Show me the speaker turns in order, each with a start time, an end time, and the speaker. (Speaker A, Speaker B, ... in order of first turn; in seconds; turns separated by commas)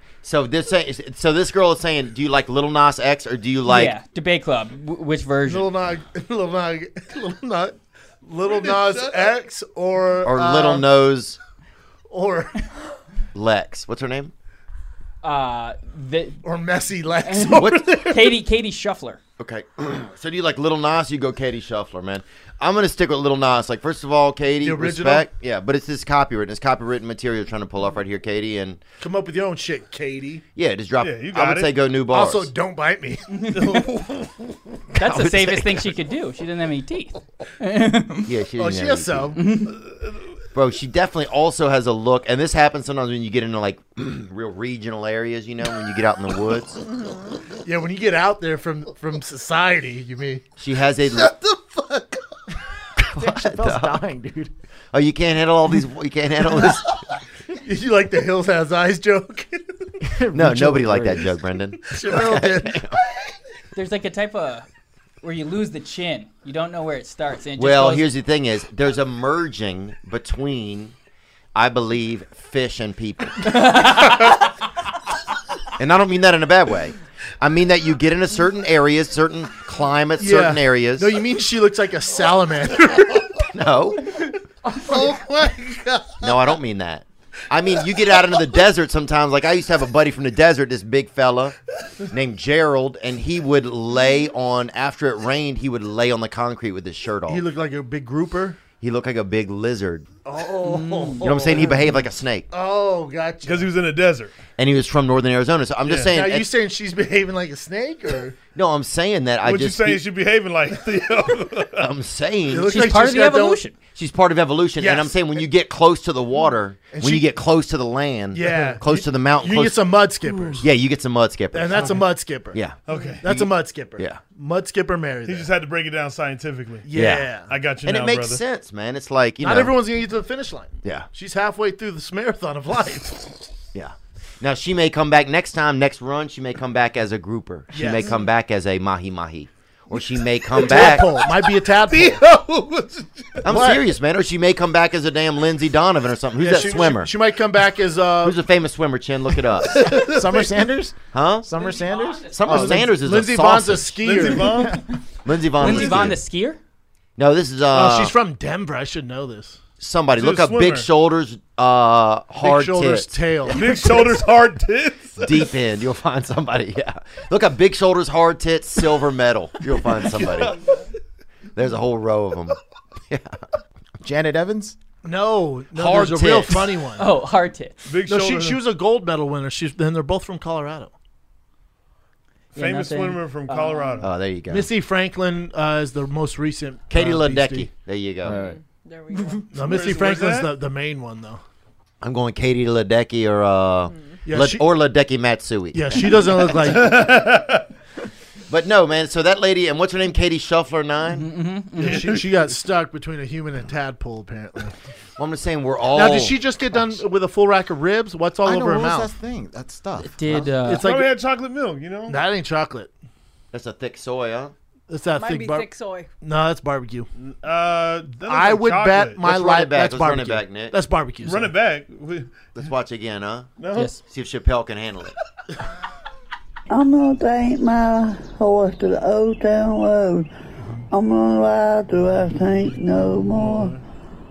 Speaker A: 0.2-3.9, Speaker B: 3.7-5.7, Speaker C: 5.5-10.9, Speaker D: 8.4-9.3, Speaker A: 10.2-11.4, Speaker C: 12.1-12.6, Speaker A: 13.3-14.3, Speaker B: 15.2-16.4, Speaker C: 16.4-18.3, Speaker B: 17.2-19.2, Speaker A: 17.6-17.9, Speaker A: 19.4-28.8, Speaker C: 24.6-25.3, Speaker C: 29.0-30.4, Speaker A: 30.6-32.5, Speaker D: 31.0-31.7, Speaker C: 32.1-33.9, Speaker B: 33.3-33.9, Speaker B: 35.0-38.3, Speaker A: 35.0-35.9, Speaker A: 38.3-39.4, Speaker C: 38.6-39.4, Speaker B: 39.4-39.8, Speaker A: 40.5-46.8, Speaker C: 47.6-50.5, Speaker A: 50.6-51.3, Speaker C: 51.1-52.2, Speaker A: 53.0-54.0, Speaker C: 53.2-54.5, Speaker A: 54.9-56.9, Speaker C: 57.5-59.9, Speaker E: 60.2-61.3, Speaker A: 60.3-63.0, Speaker C: 61.9-62.9, Speaker B: 63.8-64.7, Speaker B: 65.2-68.1, Speaker A: 67.6-71.0, Speaker A: 71.5-73.6, Speaker B: 73.5-74.4, Speaker A: 75.8-81.2, Speaker C: 80.2-83.4, Speaker A: 83.5-84.1, Speaker C: 84.7-86.3, Speaker A: 86.2-91.6, Speaker A: 92.1-97.5, Speaker C: 97.3-98.6, Speaker A: 98.8-100.1, Speaker C: 100.2-101.9, Speaker B: 100.6-101.2, Speaker A: 101.2-102.5, Speaker C: 102.5-103.7, Speaker D: 103.4-104.3, Speaker A: 104.6-106.5, Speaker C: 106.1-108.4, Speaker A: 108.5-110.0, Speaker D: 109.4-111.9, Speaker A: 111.8-112.8, Speaker C: 112.5-113.6, Speaker B: 112.7-113.8, Speaker A: 113.9-119.8, Speaker C: 114.8-115.4, Speaker C: 116.9-117.3, Speaker C: 118.3-120.7, Speaker A: 120.6-124.2, Speaker C: 121.5-122.6, Speaker D: 122.9-123.2, Speaker C: 123.2-125.5, Speaker D: 125.2-126.9, Speaker C: 126.8-127.5, Speaker A: 127.0-127.3, Speaker D: 127.5-128.4, Speaker A: 127.8-129.8, Speaker C: 129.4-133.5, Speaker A: 133.7-141.1, Speaker C: 137.7-138.2, Speaker C: 140.5-142.2, Speaker D: 140.7-143.5, Speaker A: 143.4-147.1, Speaker C: 143.5-143.8, Speaker C: 146.4-148.4, Speaker D: 146.5-146.9, Speaker A: 148.2-150.0, Speaker E: 149.9-152.9, Speaker A: 151.1-151.5, Speaker B: 151.6-152.7, Speaker A: 152.3-154.4, Speaker C: 152.5-154.8, Speaker D: 154.0-154.9, Speaker A: 155.2-156.2, Speaker B: 155.5-156.6, Speaker A: 157.2-158.2, Speaker C: 157.7-159.6, Speaker A: 159.8-163.6, Speaker D: 160.2-160.9, Speaker C: 162.4-164.2, Speaker D: 163.5-165.5, Speaker A: 165.2-170.6, Speaker A: 171.6-172.6, Speaker A: 173.1-173.4, Speaker E: 174.0-174.8, Speaker C: 175.0-177.1, Speaker A: 175.7-176.8, Speaker B: 177.0-177.8, Speaker D: 177.9-178.6, Speaker C: 178.1-180.9, Speaker B: 182.6-184.0, Speaker D: 182.6-184.1, Speaker A: 184.0-184.7, Speaker C: 184.5-187.7, Speaker A: 186.9-188.4, Speaker E: 188.2-188.6, Speaker F: 188.4-189.5, Speaker C: 189.5-191.4, Speaker D: 189.6-190.5, Speaker A: 192.0-196.0, Speaker C: 194.3-194.7, Speaker C: 195.7-197.0, Speaker D: 196.6-197.7, Speaker A: 198.5-201.3, Speaker B: 201.1-202.2, Speaker D: 201.8-202.2, Speaker C: 201.8-204.8, Speaker A: 205.2-206.4, Speaker C: 205.9-209.1, Speaker E: 208.4-210.6, Speaker B: 210.0-210.9, Speaker C: 210.6-211.1, Speaker D: 210.7-212.2, Speaker C: 212.1-212.9, Speaker A: 213.5-214.5, Speaker C: 214.9-215.7, Speaker F: 215.2-216.1, Speaker C: 216.2-217.1, Speaker D: 217.2-219.2, Speaker C: 218.2-221.5, Speaker A: 219.2-220.8, Speaker D: 221.2-222.4, Speaker A: 222.6-223.5, Speaker D: 223.6-223.9, Speaker B: 223.8-224.0, Speaker A: 224.0-225.1, Speaker G: 226.7-230.3, Speaker G: 230.9-233.8, Speaker D: 233.3-233.8